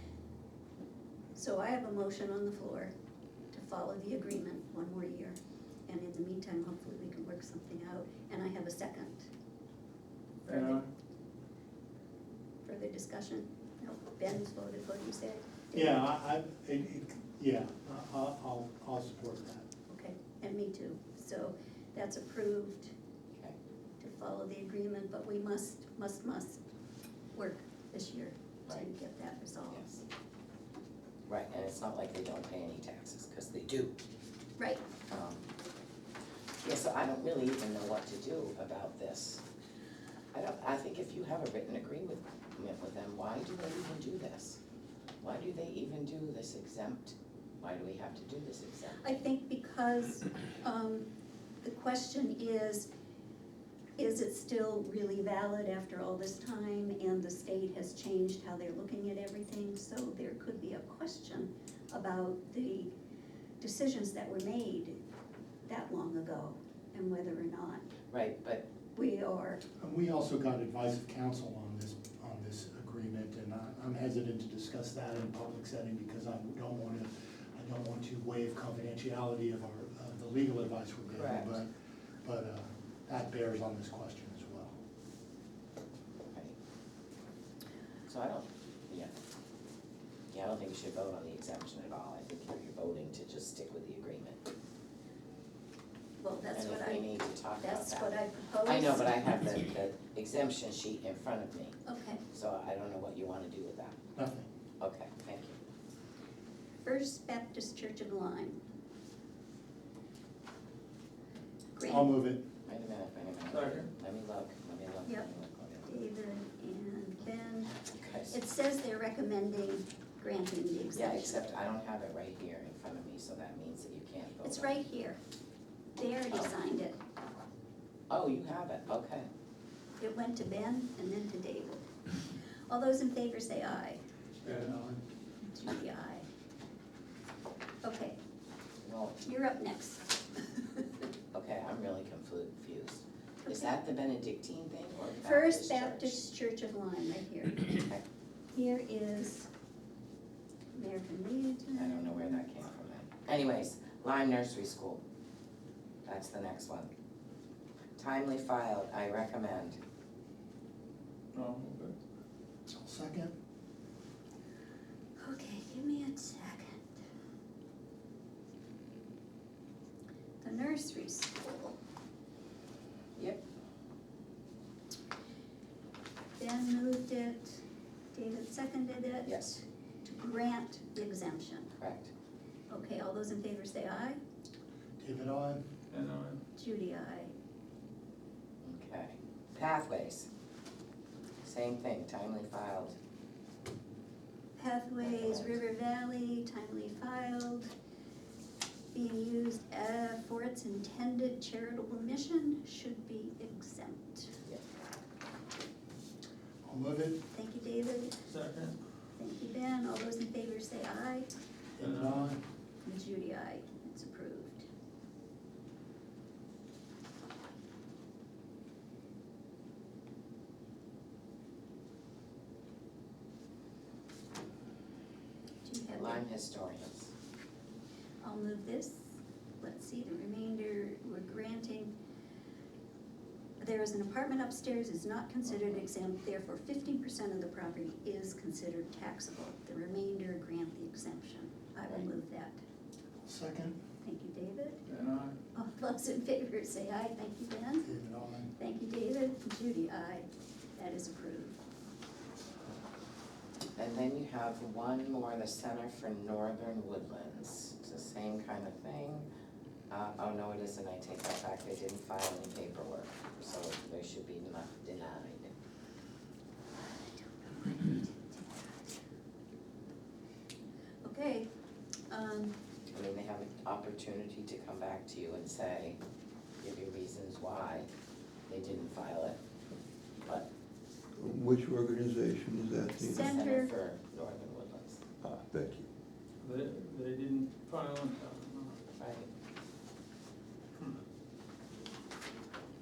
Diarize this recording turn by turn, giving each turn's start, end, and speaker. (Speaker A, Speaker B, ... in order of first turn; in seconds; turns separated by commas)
Speaker A: 1.4-2.9, Speaker A: 3.5-9.3, Speaker A: 10.4-10.8, Speaker B: 10.4-10.9, Speaker A: 12.6-16.0, Speaker C: 15.7-19.6, Speaker A: 19.9-22.9, Speaker A: 24.0-26.6, Speaker A: 27.3-29.9, Speaker D: 29.7-30.0, Speaker D: 31.3-34.0, Speaker A: 34.6-34.8, Speaker D: 35.1-35.4, Speaker D: 36.6-39.4, Speaker D: 40.3-44.6, Speaker D: 45.2-49.2, Speaker A: 49.0-51.1, Speaker A: 51.6-52.9, Speaker A: 54.0-62.9, Speaker A: 63.6-65.0, Speaker A: 65.7-67.8, Speaker D: 68.1-68.7, Speaker A: 68.9-69.6, Speaker C: 69.8-81.7, Speaker D: 81.1-81.6, Speaker C: 82.2-84.8, Speaker D: 86.3-86.5, Speaker D: 88.1-89.1, Speaker D: 90.3-94.4, Speaker A: 96.2-99.2, Speaker D: 96.5-101.8, Speaker A: 101.8-102.2, Speaker D: 102.3-104.0, Speaker C: 104.1-104.5, Speaker D: 104.8-105.6, Speaker A: 106.8-108.6, Speaker A: 111.7-112.2, Speaker C: 111.8-112.5, Speaker D: 112.7-115.9, Speaker B: 113.5-113.9, Speaker A: 115.8-117.7, Speaker D: 117.8-118.4, Speaker A: 118.3-121.5, Speaker D: 120.9-124.8, Speaker A: 124.4-125.2, Speaker A: 126.0-127.0, Speaker D: 128.1-129.3, Speaker A: 130.0-131.9, Speaker A: 132.7-134.0, Speaker C: 134.4-135.0, Speaker A: 135.4-136.2, Speaker A: 137.8-138.2, Speaker D: 138.8-139.2, Speaker A: 139.2-140.8, Speaker D: 141.3-146.2, Speaker A: 143.4-143.7, Speaker A: 145.2-147.7, Speaker D: 147.8-148.0, Speaker A: 148.5-149.5, Speaker A: 150.7-152.4, Speaker D: 151.7-155.0, Speaker D: 156.1-156.9, Speaker D: 158.0-159.8, Speaker B: 161.3-161.9, Speaker C: 162.8-163.3, Speaker A: 165.2-167.0, Speaker A: 170.4-171.8, Speaker D: 173.2-173.4, Speaker A: 176.4-177.6, Speaker A: 178.1-181.7, Speaker D: 179.2-179.6, Speaker D: 181.8-182.1, Speaker A: 182.7-184.2, Speaker C: 185.0-185.6, Speaker B: 185.9-186.4, Speaker A: 186.5-187.3, Speaker D: 188.6-190.3, Speaker D: 191.4-193.0, Speaker A: 194.6-197.7, Speaker D: 195.0-195.6, Speaker A: 198.9-204.3, Speaker C: 206.6-207.2, Speaker A: 207.3-208.2, Speaker B: 208.2-208.8, Speaker A: 209.2-211.3, Speaker C: 211.8-212.4, Speaker B: 211.8-212.3, Speaker A: 212.8-214.7, Speaker A: 225.6-226.2, Speaker D: 225.9-227.1, Speaker A: 228.2-231.9, Speaker A: 233.6-242.6, Speaker D: 235.5-235.8, Speaker C: 243.2-243.8, Speaker A: 244.0-244.8, Speaker B: 244.8-245.4, Speaker A: 245.5-247.9, Speaker C: 247.8-248.5, Speaker A: 248.5-251.6, Speaker D: 253.8-259.2, Speaker D: 259.9-265.5, Speaker A: 267.4-268.8, Speaker A: 271.0-271.5, Speaker A: 272.1-272.5, Speaker D: 272.9-276.0, Speaker D: 276.6-277.9, Speaker D: 278.5-279.4, Speaker E: 281.1-283.4, Speaker A: 283.0-283.7, Speaker D: 283.0-285.0, Speaker E: 285.2-285.9, Speaker B: 286.4-288.8, Speaker D: 289.0-289.3